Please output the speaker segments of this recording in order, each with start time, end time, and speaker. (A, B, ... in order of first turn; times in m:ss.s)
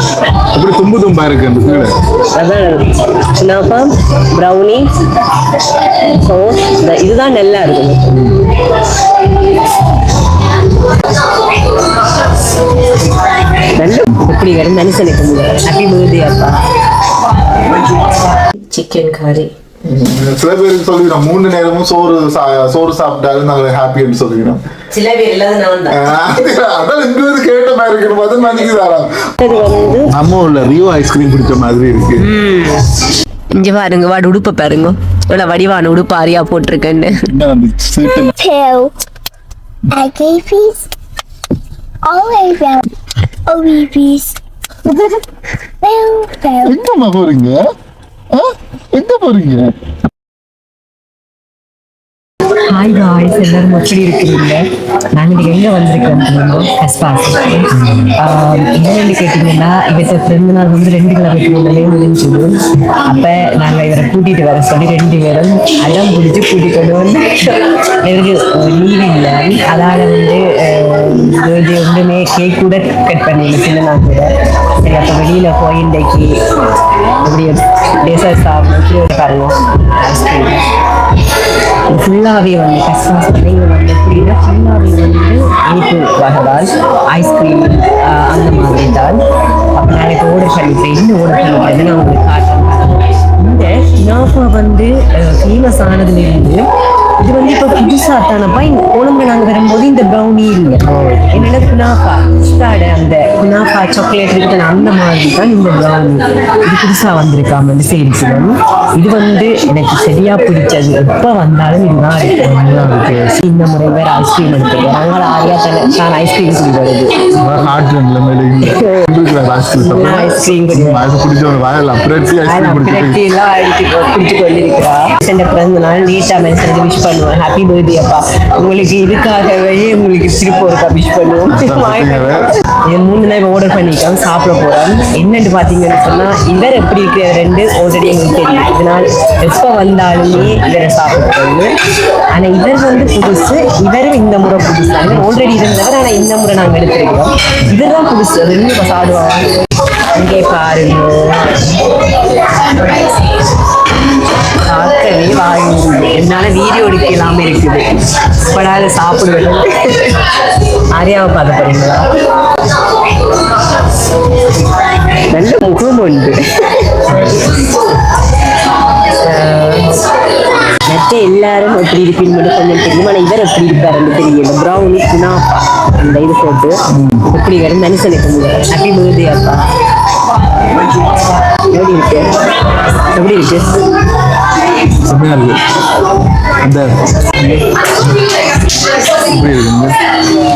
0:00.4-0:02.0 A
0:02.3-0:05.0 B
0:05.8-0:08.6 B
0:13.6-0:16.6 B
0:17.6-0:19.5 B
0:19.8-0:24.6 A
0:24.9-0:26.4 B
0:25.9-0:29.2 A
0:29.4-0:30.1 B
0:30.1-0:32.3 A
0:32.2-0:33.0 B
0:33.6-0:37.2 B
0:37.1-0:38.3 A
0:38.4-0:38.9 C
0:39.9-0:40.9 C
0:42.0-0:42.8 C
0:43.5-0:44.4 C
0:44.9-0:45.2 A
0:45.8-0:46.7 C
0:46.6-0:47.6 A
0:48.3-0:49.7 A
0:52.6-1:16.4 B
0:57.8-0:58.1 A
1:17.2-1:20.7 B
1:21.9-1:29.2 B
1:29.8-1:36.7 B
1:37.2-1:57.7 B
1:40.9-1:41.6 A
1:52.5-1:53.2 A
1:57.4-2:03.2 A
1:58.6-1:59.0 B
1:59.8-2:01.0 B
2:02.4-2:21.7 B
2:11.5-2:12.5 A
2:22.3-2:29.5 B
2:30.1-2:32.0 B
2:32.6-2:32.9 B
2:34.6-2:37.9 B
2:38.5-2:42.1 B
2:45.3-2:47.5 B
2:47.1-2:47.4 A
2:49.2-2:50.1 B
2:50.8-2:56.8 B
2:56.9-2:57.3 A
2:57.3-2:59.7 B
3:01.0-3:02.3 B
3:03.1-3:03.9 B
3:05.0-3:05.7 A
3:06.6-3:07.9 A
3:09.2-3:10.0 A